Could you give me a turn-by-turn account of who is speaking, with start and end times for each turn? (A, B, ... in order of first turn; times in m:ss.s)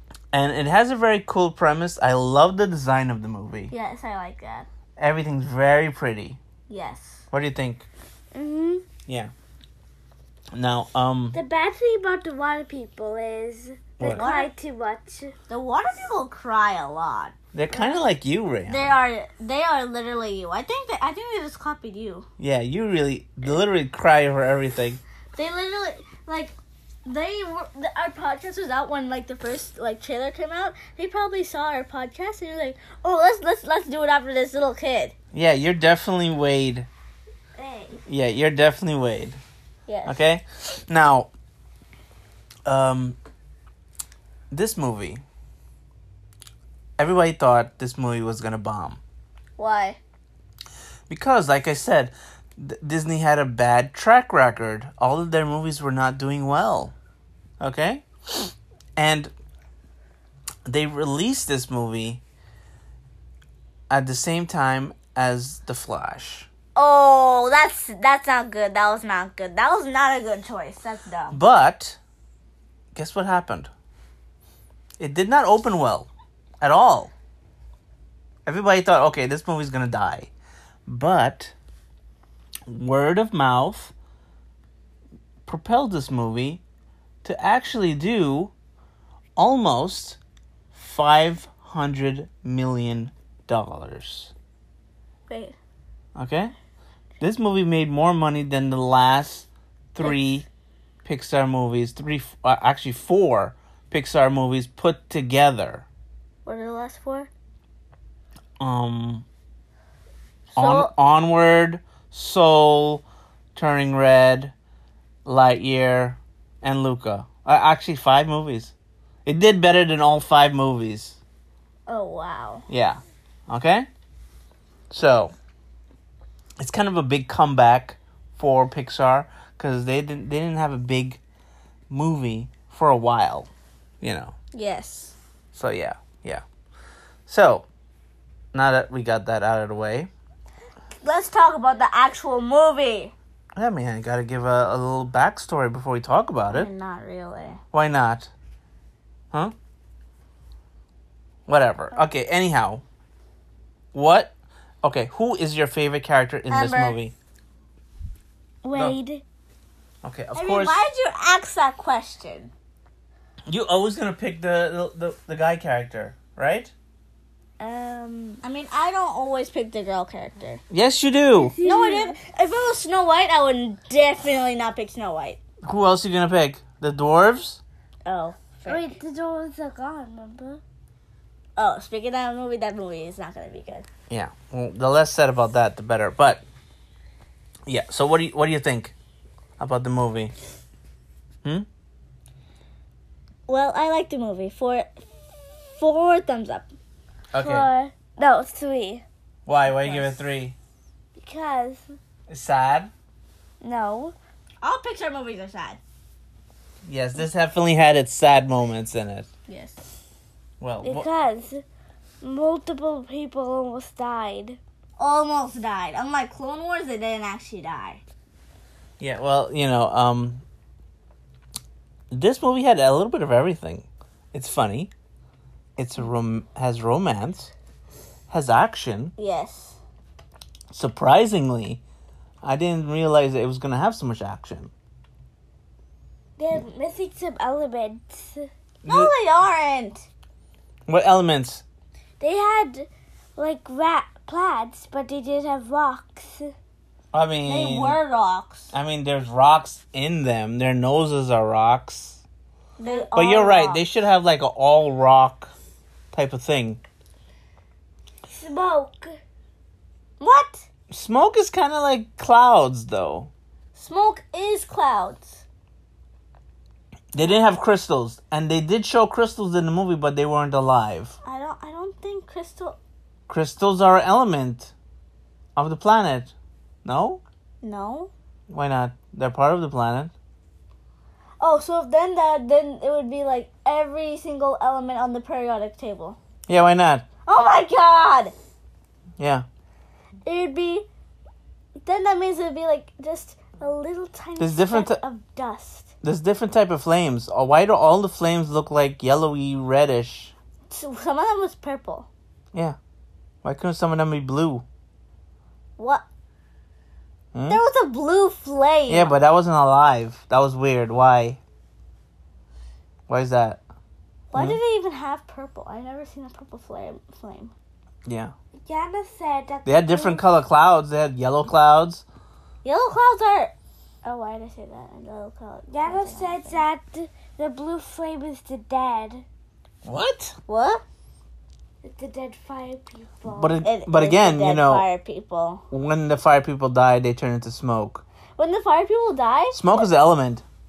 0:00.3-0:03.7 A
0:03.7-0:04.7 B
0:05.0-0:06.4 A
0:06.7-0:07.2 B
0:07.3-0:07.9 A
0:08.3-0:08.8 C
0:10.5-0:11.4 A
0:11.3-0:15.3 C
0:14.0-0:14.5 B
0:14.0-0:14.3 A
0:15.4-0:18.0 B
0:17.5-0:19.0 A
0:18.7-0:22.3 B
0:22.4-0:25.0 A
0:25.4-0:26.5 B
0:27.0-0:35.1 B
0:35.3-0:36.9 A
0:37.6-0:38.0 B
0:38.1-0:39.4 A
0:39.9-0:40.2 B
0:40.0-0:41.3 A
0:42.6-0:43.2 A
0:44.5-0:45.2 A
0:47.0-0:49.0 A
0:49.6-0:50.0 B
0:51.1-0:56.9 A
0:57.6-0:59.3 A
1:00.6-1:02.2 A
1:03.9-1:06.5 A
1:06.8-1:11.4 B
1:11.3-1:12.0 A
1:12.9-1:13.7 A
1:15.0-1:16.1 A
1:16.6-1:17.1 A
1:18.4-1:20.3 A
1:20.8-1:21.5 A
1:22.7-1:23.9 A
1:25.4-1:26.6 A
1:27.2-1:28.5 A
1:29.4-1:30.2 A
1:30.7-1:34.3 A
1:35.3-1:35.6 B
1:36.2-1:36.5 A
1:37.2-1:40.4 A
1:41.0-1:45.9 A
1:46.4-1:47.3 B
1:48.6-1:49.2 A
1:50.5-1:50.9 B
1:50.5-1:53.0 A
1:53.5-1:54.5 A
1:55.2-1:58.7 A
1:59.2-2:01.2 A
2:01.9-2:02.6 B
2:02.7-2:03.9 A
2:04.9-2:05.3 A
2:06.6-2:11.2 A
2:11.9-2:13.5 A
2:14.0-2:14.3 A
2:14.5-2:15.2 B
2:15.5-2:16.4 A
2:17.3-2:17.6 A
2:18.5-2:20.1 A
2:21.0-2:23.1 B
2:23.6-2:26.7 A
2:26.5-2:27.6 B
2:27.7-2:28.3 A
2:31.5-2:32.8 A
2:33.9-2:37.1 A
2:36.5-2:37.0 B
2:38.6-2:39.2 B
2:40.0-2:40.8 A
2:40.3-2:42.5 B
2:43.5-2:46.7 A
2:47.6-2:48.4 C
2:48.4-2:50.6 B
2:50.7-2:51.6 A
2:51.4-2:52.2 C
2:51.6-2:55.4 B
2:55.6-2:57.6 A
2:58.0-2:59.0 B
2:58.6-3:00.6 C
3:01.6-3:03.8 B
3:04.1-3:06.4 A
3:07.6-3:08.9 A
3:09.6-3:10.3 A
3:13.5-3:16.7 B
3:17.3-3:17.7 A
3:17.4-3:19.0 B
3:18.2-3:19.0 C
3:19.4-3:20.6 A
3:19.7-3:20.1 B
3:21.2-3:21.8 B
3:22.3-3:22.9 A
3:23.6-3:25.8 B
3:26.8-3:29.3 A
3:29.5-3:29.8 B
3:30.6-3:31.1 A
3:30.8-3:31.6 B
3:32.2-3:34.6 C
3:35.0-3:38.0 B
3:39.0-3:40.4 A
3:42.1-3:44.9 A
3:45.8-3:47.5 A
3:48.3-3:49.1 A
3:49.2-3:49.8 B
3:50.7-3:51.8 A
3:52.4-3:54.7 A
3:56.4-4:00.0 B
3:56.7-3:58.0 C
3:58.8-3:59.1 A
4:00.9-4:01.6 A
4:02.2-4:02.8 B
4:02.4-4:02.8 C
4:03.4-4:06.1 C
4:04.0-4:04.2 B
4:06.0-4:06.4 B
4:07.1-4:08.0 A
4:07.4-4:08.7 B
4:08.7-4:12.2 A
4:12.8-4:13.8 B
4:12.8-4:13.1 C
4:13.1-4:15.5 A
4:16.1-4:16.8 A
4:18.3-4:19.1 C
4:20.2-4:20.6 B
4:20.9-4:23.3 A
4:23.7-4:25.4 B
4:27.1-4:31.2 A
4:31.2-4:32.8 B
4:33.3-4:34.7 A
4:35.6-4:36.3 A
4:36.8-4:37.2 A
4:37.6-4:38.1 B
4:38.5-4:40.1 A
4:41.4-4:46.2 B
4:46.5-4:47.0 A
4:47.2-4:48.3 B
4:49.2-4:49.4 A
4:50.2-4:50.9 B
4:51.8-4:55.9 B
4:54.4-4:55.0 A
4:56.0-5:00.3 A
5:00.7-5:02.1 B
5:03.4-5:04.6 A
5:05.8-5:06.0 B
5:07.3-5:07.6 A
5:07.5-5:09.2 B
5:08.9-5:11.4 A
5:13.1-5:13.6 A
5:14.3-5:17.5 B
5:14.3-5:14.6 A
5:18.0-5:18.3 A
5:18.6-5:20.2 C
5:19.6-5:22.0 A
5:22.6-5:23.5 B
5:24.0-5:26.6 B
5:25.7-5:29.2 C
5:29.8-5:30.4 A
5:30.5-5:30.8 B
5:31.8-5:33.6 C
5:33.3-5:34.8 A
5:33.6-5:35.6 B
5:35.7-5:38.0 A
5:38.4-5:39.9 B
5:39.5-5:40.4 A